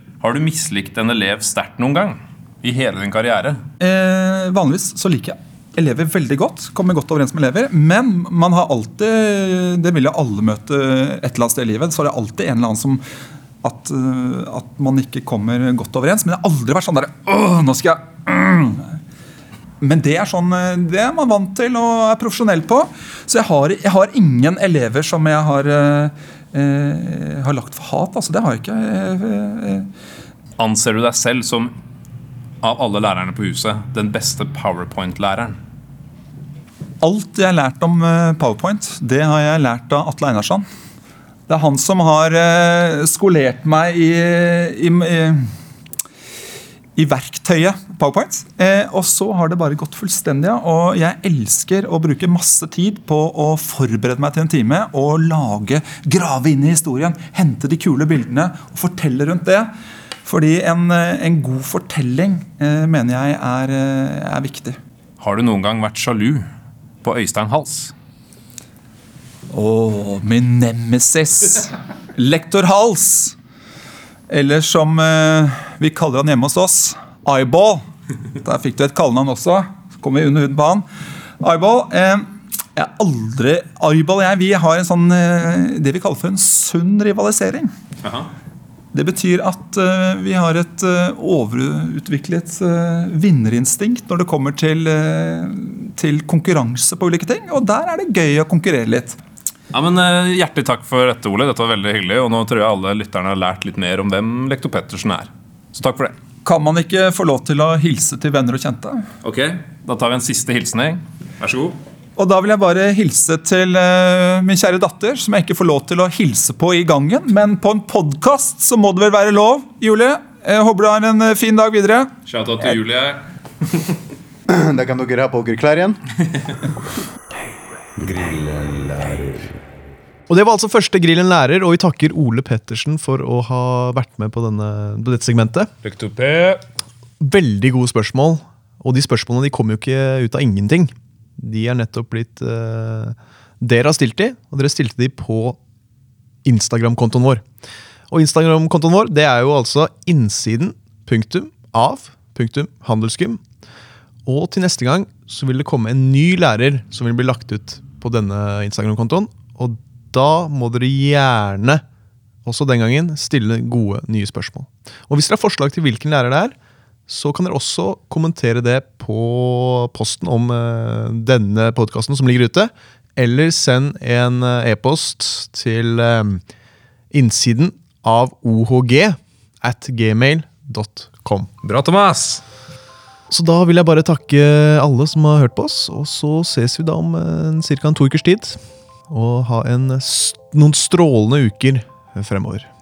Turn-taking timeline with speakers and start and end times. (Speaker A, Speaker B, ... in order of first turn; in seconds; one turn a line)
Speaker A: 0.2-3.6
Speaker B: 3.8-13.0
Speaker B: 13.6-19.0
Speaker B: 19.8-29.9
Speaker A: 30.6-31.7
Speaker A: 32.6-35.6
Speaker B: 37.0-40.6
Speaker B: 41.5-45.5
Speaker B: 47.0-59.7
Speaker B: 60.2-64.8
Speaker A: 65.2-66.5
Speaker A: 67.0-67.9
Speaker B: 69.5-73.3
Speaker B: 74.3-77.8
Speaker B: 78.4-80.8
Speaker B: 81.4-87.7
Speaker A: 88.0-88.3
Speaker B: 88.9-99.2
Speaker A: 99.7-106.1
Speaker B: 106.4-109.0
Speaker A: 109.2-111.8
Speaker B: 112.2-122.1
Speaker A: 122.3-123.2
Speaker C: 124.5-126.0
Speaker C: 128.0-129.6
Speaker D: 130.3-135.7
Speaker A: 135.8-136.6
Speaker D: 137.2-145.6
Speaker D: 146.4-147.4
Speaker D: 148.1-153.4
Speaker D: 154.3-161.8
Speaker D: 162.4-166.6
Speaker D: 167.1-176.4
Speaker D: 177.1-181.5
Speaker A: 181.6-182.4
Speaker D: 183.3-192.7